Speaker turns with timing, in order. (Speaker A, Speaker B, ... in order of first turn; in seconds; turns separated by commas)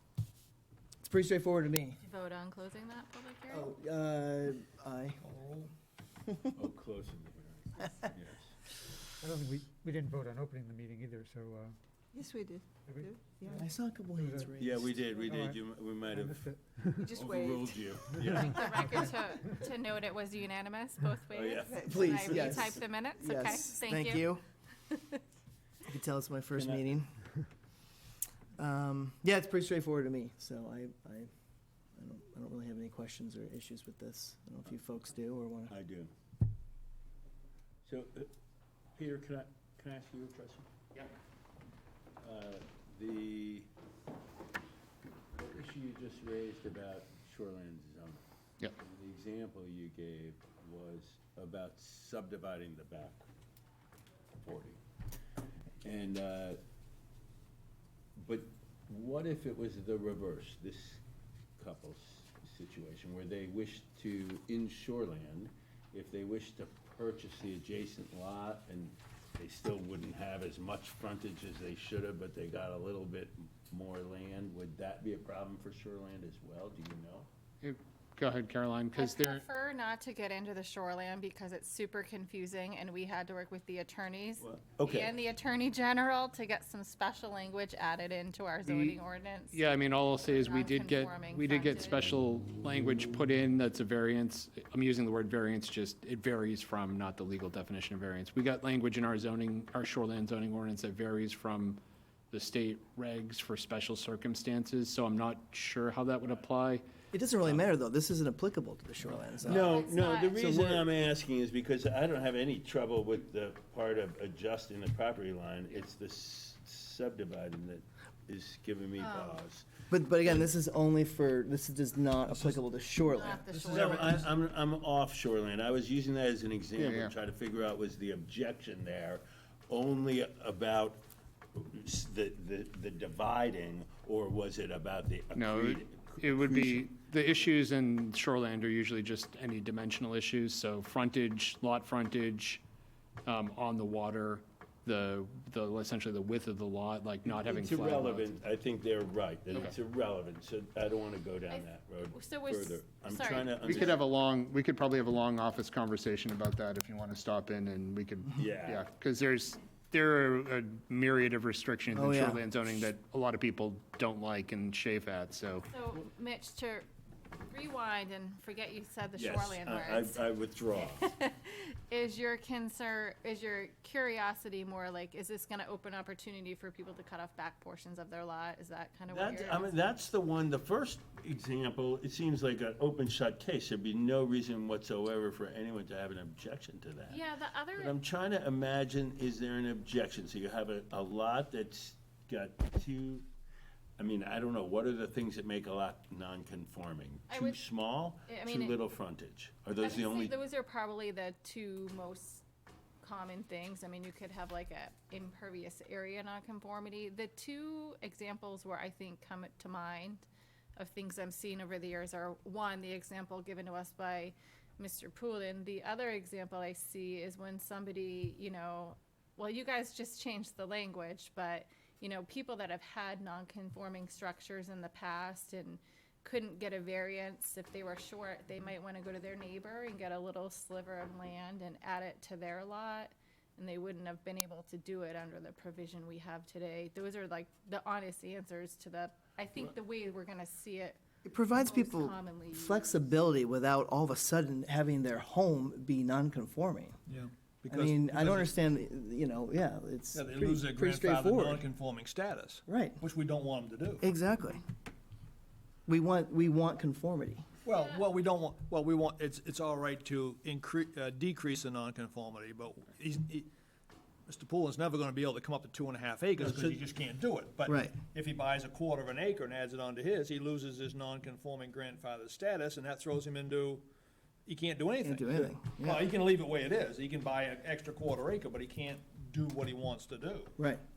Speaker A: 1.0-2.0, Speaker B: 2.0-3.7, Speaker A: 3.5-5.2, Speaker C: 5.2-5.7, Speaker D: 6.5-8.5, Speaker E: 9.2-11.8, Speaker F: 12.1-13.5, Speaker E: 12.8-17.1, Speaker A: 13.5-14.8, Speaker D: 14.6-19.1, Speaker F: 17.0-18.4, Speaker E: 18.3-18.6, Speaker B: 18.4-25.2, Speaker D: 21.3-22.6, Speaker A: 21.8-24.4, Speaker A: 25.9-27.1, Speaker D: 26.5-26.9, Speaker A: 28.6-31.3, Speaker A: 31.9-35.7, Speaker D: 35.7-36.1, Speaker D: 37.9-38.3, Speaker D: 38.9-40.7, Speaker D: 42.2-43.7, Speaker D: 45.3-48.2, Speaker D: 48.8-53.2, Speaker D: 54.4-54.8, Speaker D: 55.8-56.6, Speaker D: 58.2-61.0, Speaker D: 61.6-77.3, Speaker G: 77.6-79.4, Speaker B: 78.9-92.0, Speaker D: 84.4-85.2, Speaker G: 88.7-89.0, Speaker G: 89.5-106.8, Speaker A: 107.1-110.9, Speaker D: 109.4-119.7, Speaker B: 109.5-110.3, Speaker B: 119.0-119.4, Speaker A: 119.9-123.4, Speaker B: 123.1-124.2, Speaker C: 123.5-124.2, Speaker D: 123.6-131.0, Speaker G: 126.7-127.1, Speaker D: 131.5-136.9, Speaker G: 135.3-142.6, Speaker G: 143.2-148.3, Speaker D: 147.2-154.0, Speaker B: 151.5-154.0, Speaker G: 153.6-165.7, Speaker D: 158.4-158.8, Speaker A: 161.9-162.4, Speaker B: 165.7-166.8, Speaker B: 167.5-170.2, Speaker D: 169.2-171.1, Speaker B: 171.0-179.7, Speaker D: 179.1-187.2, Speaker B: 187.1-187.9, Speaker D: 187.8-193.2, Speaker D: 194.0-200.4, Speaker B: 197.3-197.6, Speaker B: 198.2-198.8, Speaker B: 199.8-202.4, Speaker B: 203.0-243.1, Speaker A: 241.2-247.0, Speaker C: 247.1-248.5, Speaker A: 247.6-251.6, Speaker C: 250.1-254.0, Speaker A: 252.7-253.0, Speaker A: 254.0-254.6, Speaker A: 255.9-257.4, Speaker C: 257.6-263.5, Speaker B: 257.7-258.1, Speaker C: 264.3-273.8, Speaker A: 266.4-266.8, Speaker A: 267.6-268.0, Speaker C: 274.4-280.5, Speaker A: 275.0-276.1